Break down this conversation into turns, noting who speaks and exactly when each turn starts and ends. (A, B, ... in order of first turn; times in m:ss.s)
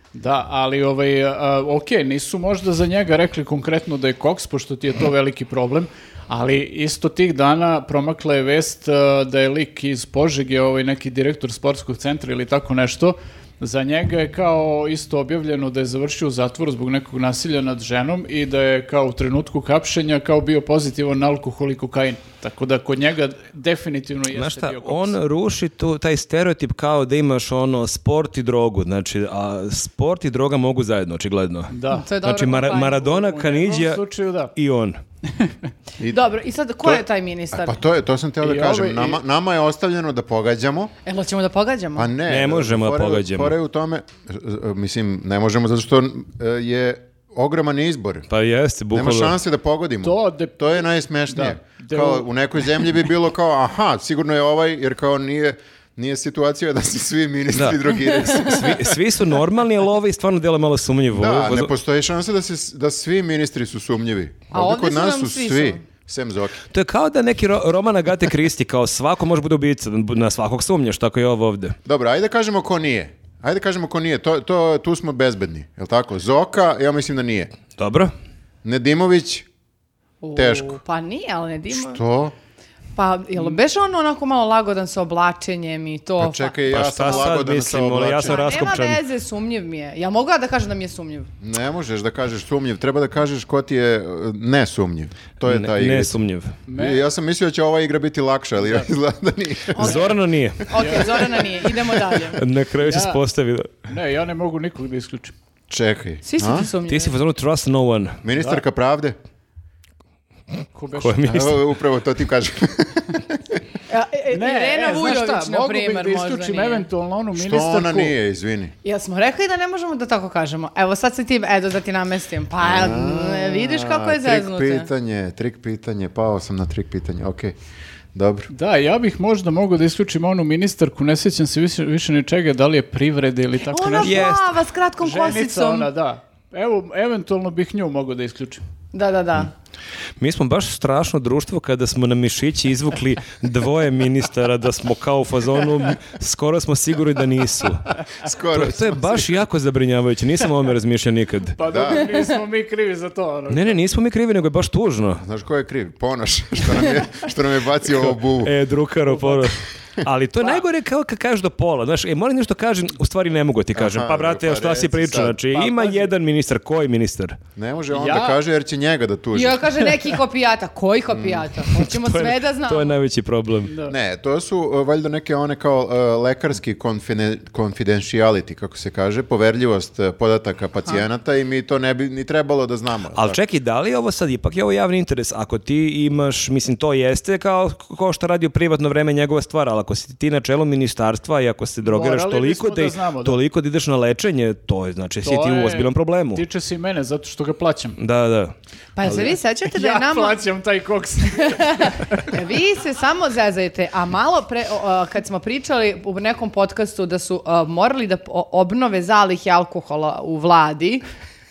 0:00.1-0:25.2 A
0:24.3-0:35.0 B
0:31.7-0:32.1 A
0:31.9-0:33.1 C
0:33.0-0:34.5 A
0:35.3-0:35.6 A
0:36.0-0:37.8 C
0:36.8-0:40.9 D
0:38.4-0:39.2 A
0:41.0-0:42.1 C
0:42.0-0:48.3 D
0:42.3-0:43.5 B
0:48.3-0:49.4 B
0:48.9-0:59.0 D
0:50.0-0:52.3 A
0:57.5-1:01.7 B
1:01.1-1:06.6 D
1:04.5-1:05.8 C
1:06.7-1:11.8 B
1:11.8-1:17.5 D
1:17.8-1:18.1 B
1:18.6-1:19.5 D
1:20.2-1:22.0 C
1:20.4-1:20.8 D
1:21.7-1:22.3 D
1:23.0-1:27.3 C
1:26.2-1:28.6 D
1:26.7-1:29.0 B
1:28.2-1:31.3 C
1:31.4-1:36.2 D
1:35.4-1:36.5 B
1:36.7-1:37.0 A
1:36.7-1:40.1 D
1:38.6-1:38.9 A
1:39.8-1:40.1 C
1:39.8-1:40.6 B
1:39.8-1:40.1 A
1:40.7-1:42.4 C
1:40.7-1:41.3 A
1:42.3-1:43.7 B
1:42.8-1:43.2 A
1:43.9-1:45.3 A
1:45.7-1:46.7 D
1:46.2-1:47.1 C
1:46.9-1:48.2 B
1:48.2-1:49.2 D
1:48.4-1:48.6 A
1:50.7-1:51.4 A
1:51.0-1:51.6 B
1:51.2-1:53.6 D
1:53.9-1:56.9 C
1:54.3-1:58.1 A
1:57.3-1:58.7 D
1:58.8-2:04.9 C
2:02.6-2:07.5 D
2:08.1-2:08.5 D
2:08.5-2:14.3 A
2:13.7-2:15.9 C
2:14.0-2:14.5 B
2:15.0-2:18.6 A
2:18.9-2:19.5 C
2:20.2-2:27.9 B
2:28.2-2:29.4 D
2:28.5-2:31.6 B
2:31.5-2:33.8 A
2:31.6-2:32.2 D
2:33.5-2:35.2 B
2:35.2-2:38.6 D
2:37.9-2:47.4 B
2:39.1-2:39.4 A
2:43.8-2:45.4 D
2:45.5-2:46.1 A
2:47.6-2:49.6 D
2:47.9-2:48.4 A
2:49.3-2:52.9 C
2:51.1-2:51.5 D
2:51.7-2:53.7 B
2:53.6-2:54.0 A
2:53.8-3:03.4 D
3:03.1-3:16.4 B
3:11.8-3:13.4 A
3:15.2-3:18.0 A
3:18.0-3:18.5 B
3:19.0-3:20.4 C
3:19.0-3:19.4 D
3:19.1-3:22.3 A
3:21.4-3:31.0 C